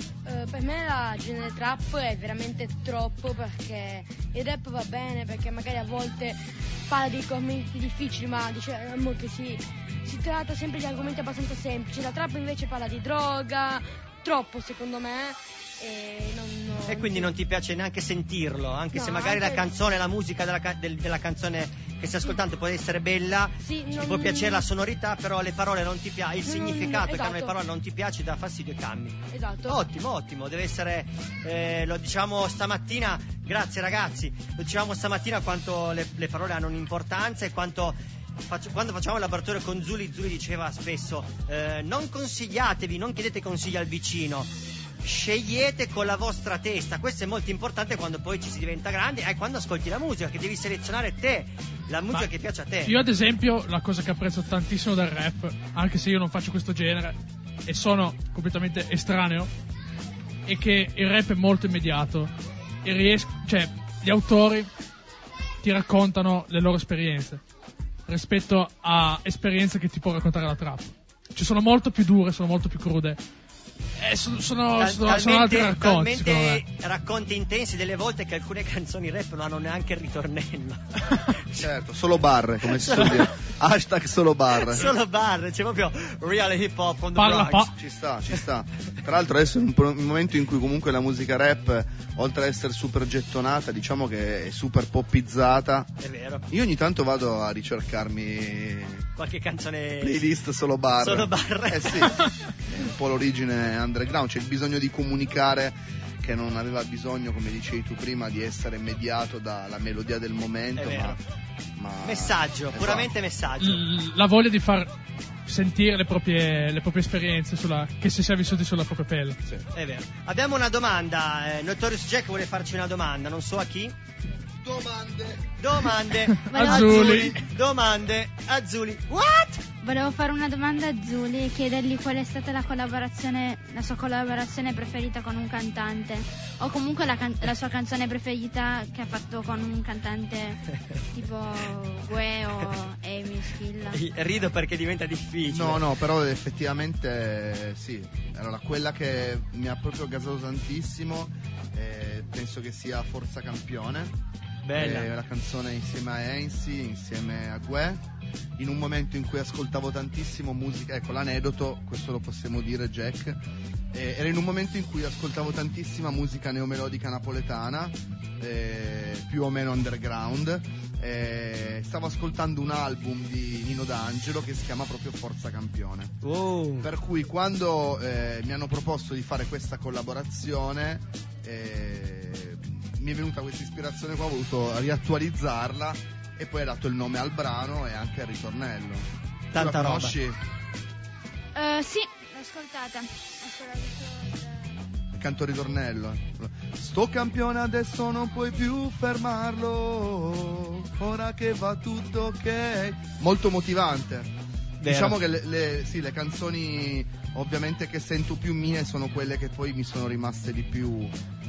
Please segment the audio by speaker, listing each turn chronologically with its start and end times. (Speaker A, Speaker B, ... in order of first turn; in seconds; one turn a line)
Speaker A: 0.2-17.3
Speaker B: 16.8-52.9
Speaker A: 18.9-19.7
Speaker A: 23.6-24.6
Speaker A: 26.4-27.5
Speaker A: 29.3-29.8
Speaker C: 52.8-59.5
Speaker C: 60.5-62.3
Speaker C: 62.8-64.7
Speaker C: 65.6-67.4
Speaker C: 68.1-73.2
Speaker C: 74.0-76.6
Speaker B: 74.7-81.7
Speaker D: 81.6-84.9
Speaker B: 82.7-83.2
Speaker B: 84.7-87.7
Speaker C: 87.2-87.7
Speaker D: 87.8-95.9
Speaker B: 96.0-96.4
Speaker D: 96.5-99.0
Speaker B: 99.2-100.2
Speaker D: 100.0-102.1
Speaker B: 101.0-102.1
Speaker D: 102.7-111.2
Speaker B: 110.8-111.2
Speaker D: 111.8-113.1
Speaker B: 112.0-113.8
Speaker C: 113.6-114.9
Speaker C: 115.5-119.4
Speaker B: 119.7-123.9
Speaker D: 124.6-125.5
Speaker B: 125.6-129.6
Speaker C: 126.3-127.3
Speaker E: 126.5-127.2
Speaker E: 129.8-140.6
Speaker E: 141.1-144.0
Speaker B: 143.9-145.8
Speaker D: 145.5-154.2
Speaker B: 154.6-155.1
Speaker D: 154.7-158.0
Speaker D: 158.6-163.4
Speaker D: 163.9-176.2
Speaker B: 176.2-176.9
Speaker D: 176.8-190.4
Speaker B: 189.5-190.1
Speaker E: 191.6-194.6
Speaker D: 195.1-204.3
Speaker B: 204.8-205.2
Speaker D: 204.8-211.1